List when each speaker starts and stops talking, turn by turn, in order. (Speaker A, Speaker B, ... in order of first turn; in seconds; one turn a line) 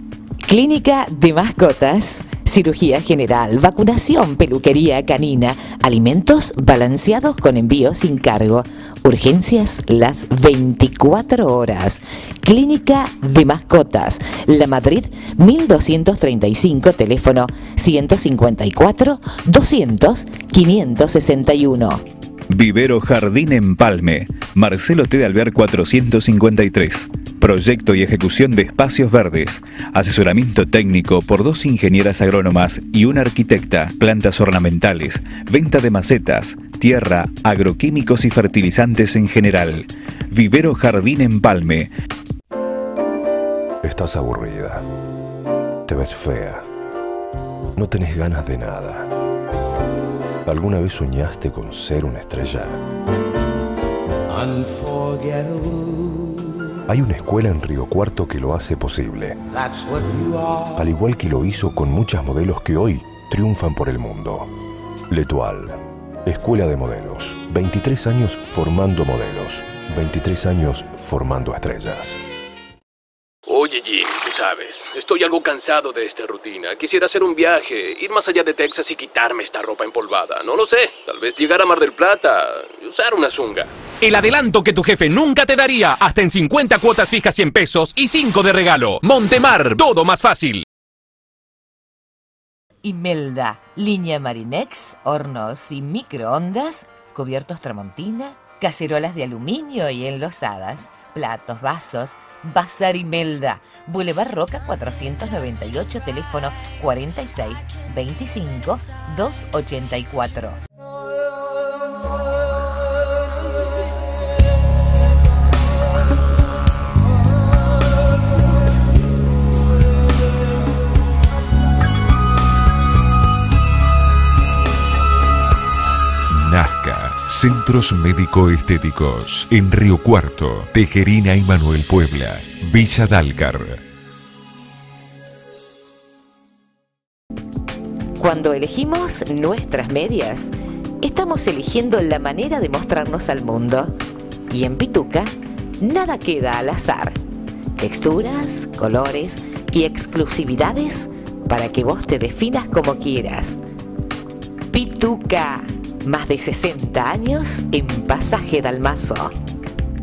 Speaker A: 0.5-22.0
Speaker B: 22.5-41.9
Speaker C: 43.8-44.8
Speaker C: 45.9-46.6
Speaker C: 47.8-49.1
Speaker C: 50.5-52.8
Speaker C: 56.9-59.6
Speaker C: 60.7-64.5
Speaker C: 65.1-72.2
Speaker D: 73.5-83.7
Speaker E: 84.0-90.6
Speaker A: 92.8-110.6
Speaker F: 126.3-133.8
Speaker A: 138.2-143.9
Speaker A: 144.5-147.2
Speaker A: 147.8-153.6
Speaker A: 154.7-159.3